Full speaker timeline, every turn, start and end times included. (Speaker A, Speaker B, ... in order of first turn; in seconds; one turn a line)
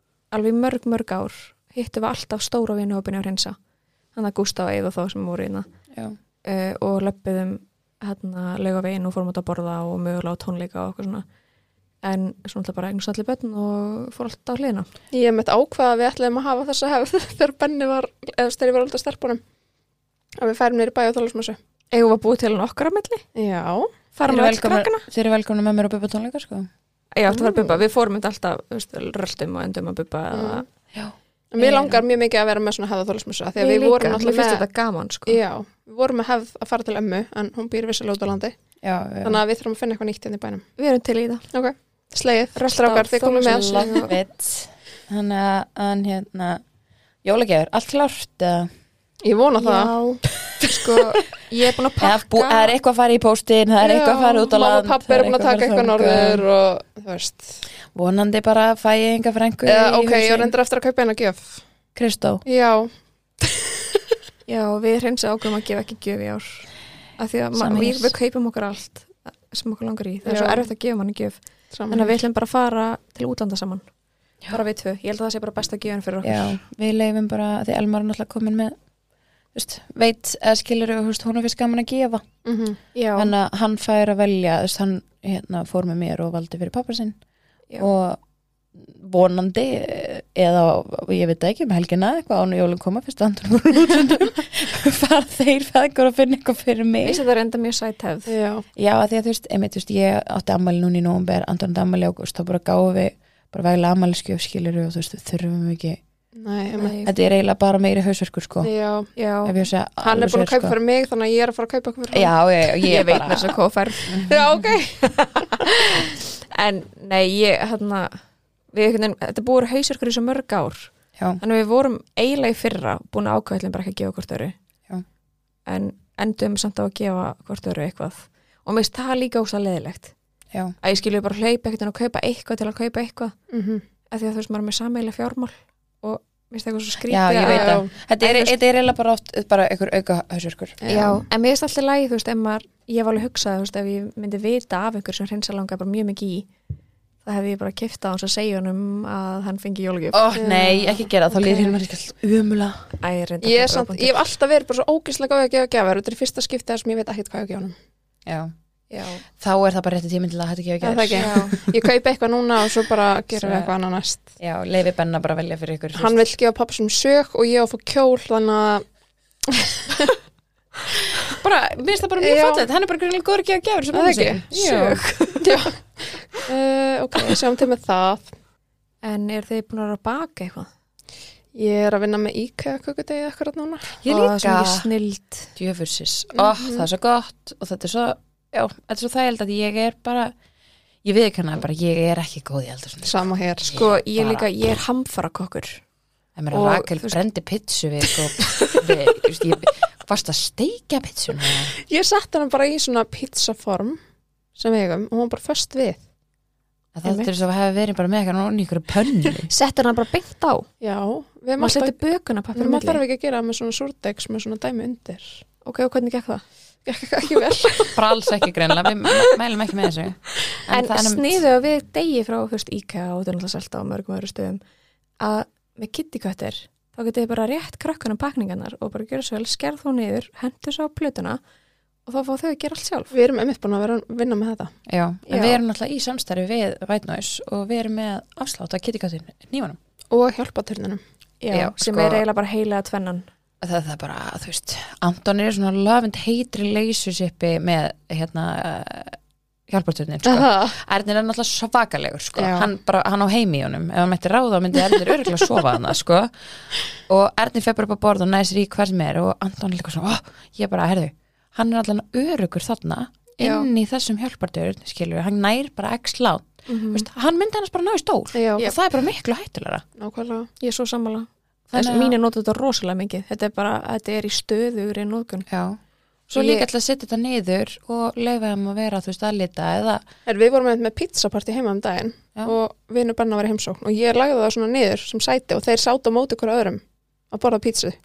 Speaker A: 0.3-3.6
Speaker A: 4.2-5.7
Speaker A: 6.4-11.2
Speaker A: 12.0-14.9
Speaker B: 15.1-19.4
Speaker B: 20.4-21.6
Speaker A: 21.9-23.2
Speaker B: 23.4-23.9
Speaker A: 24.1-25.1
Speaker C: 24.2-26.7
Speaker A: 27.1-30.7
Speaker B: 27.3-27.7
Speaker B: 30.3-30.6
Speaker B: 31.5-34.6
Speaker A: 31.6-32.0
Speaker A: 33.6-35.4
Speaker B: 35.3-38.6
Speaker C: 38.8-39.4
Speaker B: 39.2-40.7
Speaker A: 40.8-41.4
Speaker B: 41.5-44.1
Speaker A: 42.6-44.1
Speaker C: 43.5-46.6
Speaker C: 47.2-48.7
Speaker B: 49.2-50.0
Speaker A: 49.6-52.8
Speaker C: 52.0-56.4
Speaker B: 53.8-57.5
Speaker C: 57.9-60.5
Speaker B: 59.7-61.6
Speaker C: 62.0-62.4
Speaker B: 62.5-62.9
Speaker B: 63.4-63.8
Speaker A: 64.5-71.4
Speaker C: 67.5-68.1
Speaker B: 70.2-70.7
Speaker B: 71.7-72.2
Speaker A: 71.9-73.8
Speaker A: 74.5-76.6
Speaker C: 76.2-78.8
Speaker C: 79.5-82.3
Speaker B: 82.5-82.8
Speaker A: 82.9-83.3
Speaker C: 83.2-87.2
Speaker C: 87.8-88.2
Speaker C: 88.8-97.2
Speaker A: 97.0-98.3
Speaker B: 98.3-98.7
Speaker C: 98.8-106.0
Speaker B: 106.3-107.0
Speaker A: 106.7-107.1
Speaker C: 107.0-108.7
Speaker B: 108.6-109.1
Speaker A: 109.2-109.5
Speaker C: 109.5-110.8
Speaker B: 110.0-112.3
Speaker C: 112.1-114.6
Speaker A: 112.8-114.2
Speaker B: 114.2-115.0
Speaker A: 115.0-118.2
Speaker A: 118.7-124.6
Speaker A: 125.7-130.1
Speaker A: 130.8-133.3
Speaker B: 133.5-133.8
Speaker A: 134.1-138.5
Speaker C: 137.1-140.8
Speaker B: 137.4-137.9
Speaker B: 140.8-141.2
Speaker A: 140.9-146.5
Speaker A: 147.2-150.4
Speaker C: 150.1-152.9
Speaker B: 150.4-151.1
Speaker A: 151.3-151.8
Speaker A: 153.0-154.2
Speaker B: 153.4-157.8
Speaker C: 158.3-158.5
Speaker A: 158.9-159.2
Speaker C: 159.4-161.7
Speaker B: 160.8-164.3
Speaker A: 161.1-161.6
Speaker C: 163.3-163.7
Speaker C: 164.4-166.2
Speaker B: 166.0-168.8
Speaker B: 169.5-170.2
Speaker C: 171.3-175.0
Speaker B: 172.2-172.7
Speaker B: 173.9-174.5
Speaker A: 174.5-175.7
Speaker B: 175.4-178.3
Speaker A: 179.0-180.7
Speaker B: 181.6-184.0
Speaker C: 184.0-184.9
Speaker A: 184.1-185.5
Speaker C: 185.6-190.3
Speaker B: 186.3-186.9
Speaker C: 191.0-194.5
Speaker B: 193.0-193.8
Speaker A: 193.7-195.8
Speaker C: 196.4-201.7
Speaker A: 196.5-197.2
Speaker B: 201.8-204.0
Speaker B: 204.6-206.0
Speaker C: 206.9-209.5
Speaker A: 209.5-210.7
Speaker B: 210.8-212.0
Speaker A: 211.6-213.0
Speaker B: 212.6-215.4
Speaker A: 215.6-216.4
Speaker B: 216.9-217.9
Speaker C: 217.9-221.4
Speaker A: 220.7-224.6
Speaker A: 225.2-231.4
Speaker A: 232.1-233.1
Speaker B: 233.1-234.7
Speaker C: 234.9-239.8
Speaker A: 235.3-235.6
Speaker B: 240.1-241.0
Speaker A: 241.4-243.3
Speaker C: 241.5-242.2
Speaker C: 243.6-256.3
Speaker B: 250.2-250.7
Speaker B: 252.4-252.7
Speaker C: 257.0-269.8
Speaker A: 263.4-263.7
Speaker A: 266.7-267.1
Speaker B: 268.3-268.7
Speaker B: 270.0-270.5
Speaker A: 270.6-275.5
Speaker C: 271.7-272.2
Speaker C: 275.5-275.8
Speaker C: 276.3-280.0
Speaker B: 280.3-288.0